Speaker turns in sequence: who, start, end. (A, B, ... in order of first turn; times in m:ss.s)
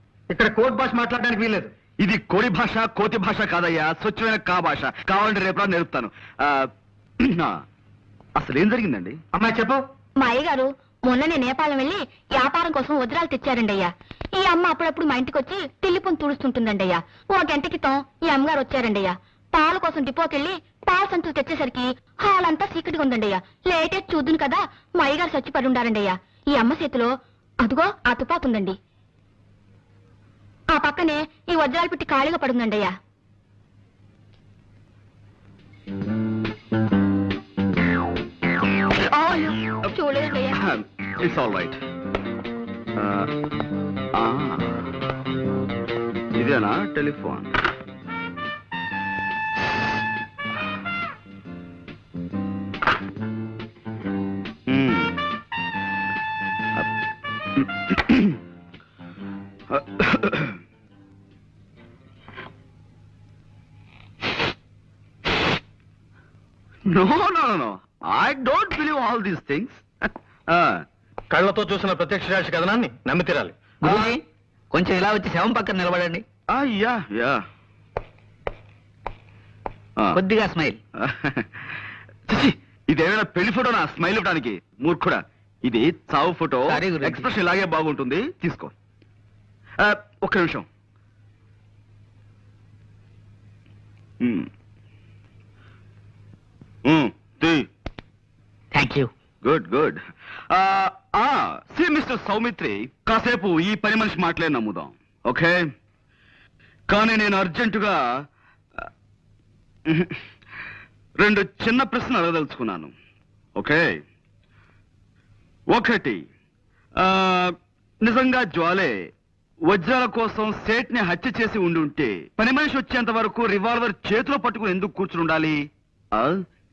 0:00.3-0:01.7 A
0:02.0-0:06.7 B
0:07.2-0:07.5 B
0:08.4-0:09.2 B
0:09.4-0:09.8 A
0:10.2-0:27.1 C
0:27.6-0:28.8 C
0:30.7-0:32.9 C
0:39.2-0:40.6 C
0:40.6-0:41.8 B
0:43.0-0:43.3 B
0:44.2-0:44.8 B
0:46.4-0:47.5 B
0:54.7-0:55.2 B
0:57.6-0:58.4 B
0:59.7-1:00.6 B
1:06.9-1:09.8 B
1:10.5-1:10.8 B
1:11.3-1:13.5 A
1:13.8-1:14.2 D
1:13.9-1:14.1 B
1:14.7-1:16.2 D
1:16.5-1:17.4 B
1:20.1-1:20.8 D
1:21.0-1:21.5 B
1:22.3-1:28.7 B
1:26.7-1:27.3 D
1:29.8-1:30.7 B
1:34.2-1:34.5 B
1:36.8-1:37.7 B
1:39.4-1:40.0 B
1:40.5-1:45.6 B
1:46.9-1:48.0 B
1:49.9-1:50.2 B
1:51.2-1:52.9 B
1:53.6-1:54.0 B
1:55.7-1:56.2 B
1:57.0-1:59.0 B
1:59.7-2:05.6 B